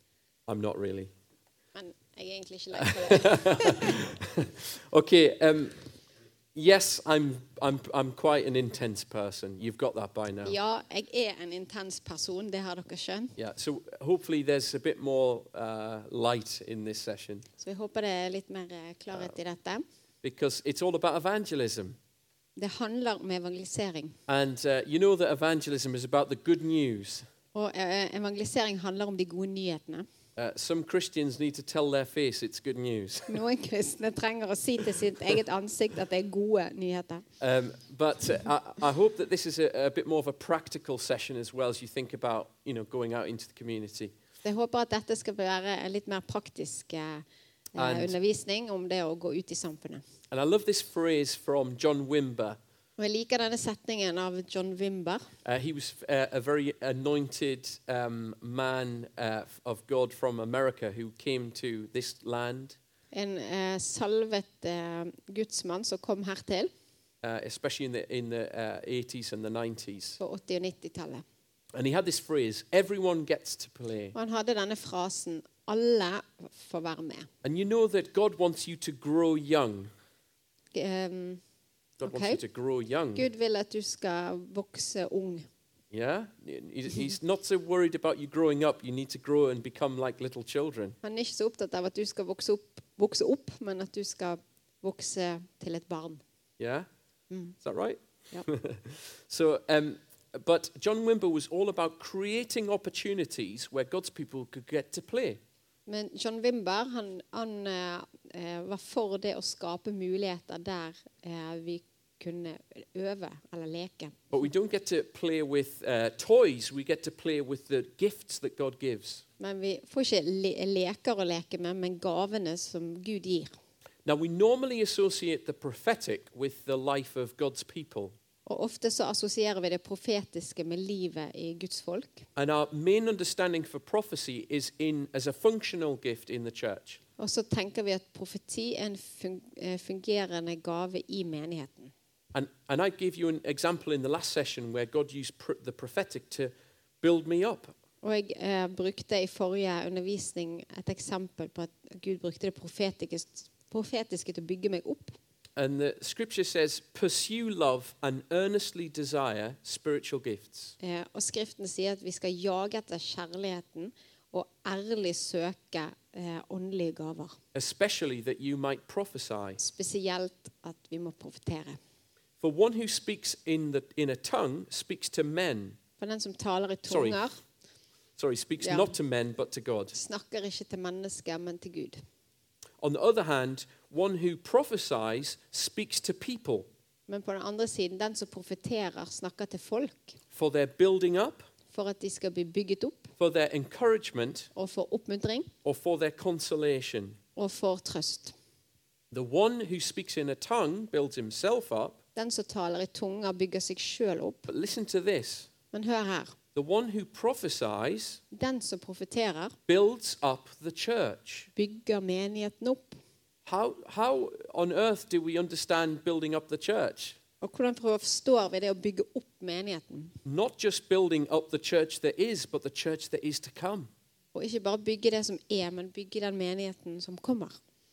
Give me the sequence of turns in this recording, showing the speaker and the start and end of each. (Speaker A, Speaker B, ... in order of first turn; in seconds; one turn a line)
Speaker A: 0.5-1.1
Speaker B: 1.7-4.0
Speaker A: 2.8-5.7
Speaker A: 6.5-10.5
Speaker B: 10.4-13.3
Speaker A: 13.4-17.4
Speaker B: 17.6-19.8
Speaker A: 20.2-22.0
Speaker B: 22.6-24.2
Speaker A: 24.3-27.3
Speaker B: 27.5-30.1
Speaker A: 30.4-33.4
Speaker B: 33.3-37.2
Speaker A: 37.4-44.1
Speaker B: 44.4-50.0
Speaker A: 47.8-48.1
Speaker A: 50.3-52.6
Speaker B: 53.0-55.3
Speaker A: 55.4-62.8
Speaker B: 63.1-66.7
Speaker A: 67.2-70.2
Speaker B: 70.2-71.2
Speaker A: 71.7-74.1
Speaker B: 74.1-77.3
Speaker A: 77.4-79.9
Speaker B: 80.7-81.4
Speaker A: 82.0-83.3
Speaker B: 82.0-82.4
Speaker B: 83.1-85.5
Speaker A: 85.9-91.0
Speaker B: 91.0-96.2
Speaker A: 96.6-96.9
Speaker B: 97.3-97.5
Speaker A: 97.6-105.4
Speaker B: 105.9-114.3
Speaker A: 114.3-119.2
Speaker B: 119.4-123.5
Speaker A: 124.0-128.2
Speaker B: 128.4-132.3
Speaker A: 132.3-137.0
Speaker B: 137.2-141.9
Speaker A: 142.3-147.7
Speaker B: 148.0-155.2
Speaker A: 155.6-160.7
Speaker B: 160.8-167.4
Speaker A: 167.5-169.6
Speaker B: 169.6-171.8
Speaker A: 172.4-175.8
Speaker B: 176.0-177.4
Speaker A: 176.9-177.2
Speaker A: 178.2-179.9
Speaker B: 178.6-178.9
Speaker B: 179.9-182.0
Speaker A: 182.8-186.7
Speaker B: 187.1-190.2
Speaker A: 190.3-191.5
Speaker B: 191.7-193.1
Speaker A: 193.2-194.5
Speaker B: 194.5-195.5
Speaker A: 195.6-197.2
Speaker B: 197.3-198.3
Speaker A: 199.1-202.0
Speaker B: 202.2-204.5
Speaker A: 204.5-205.5
Speaker B: 205.7-206.3
Speaker A: 206.5-208.2
Speaker B: 208.3-209.5
Speaker A: 209.7-211.5
Speaker B: 211.6-213.0
Speaker A: 213.4-217.2
Speaker B: 217.4-220.2
Speaker A: 220.2-223.9
Speaker B: 224.3-227.6